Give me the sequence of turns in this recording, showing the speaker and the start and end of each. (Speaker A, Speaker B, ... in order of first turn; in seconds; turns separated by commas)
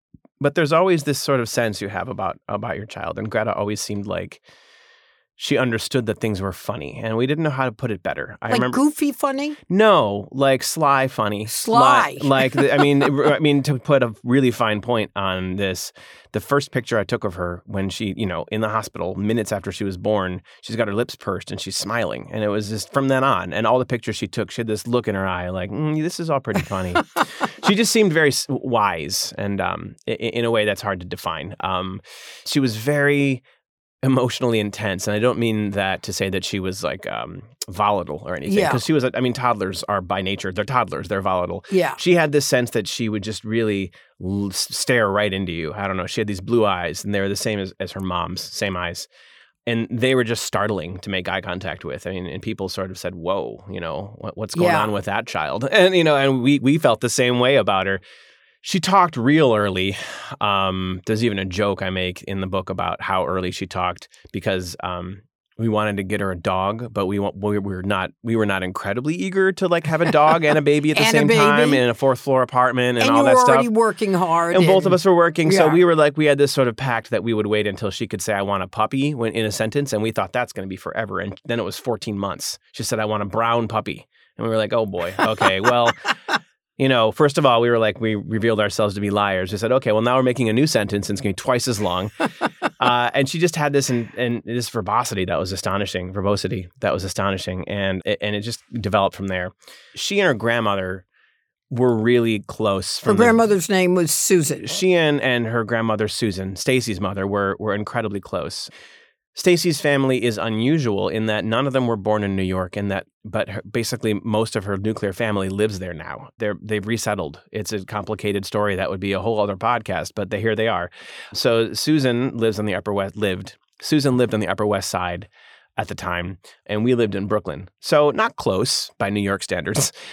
Speaker A: 0.4-4.4, Speaker A: 5.4-8.8, Speaker B: 8.5-9.6, Speaker A: 9.7-33.4, Speaker B: 11.5-13.1, Speaker A: 34.0-49.1, Speaker B: 38.5-38.8, Speaker B: 41.7-42.0, Speaker A: 49.6-58.0, Speaker B: 54.5-54.9, Speaker A: 58.6-73.7, Speaker B: 70.9-71.8, Speaker B: 73.0-75.8, Speaker A: 74.5-86.0, Speaker A: 86.8-92.2, Speaker A: 92.8-101.0, Speaker A: 101.7-103.4, Speaker B: 103.0-104.8, Speaker A: 104.6-108.7, Speaker A: 109.3-129.9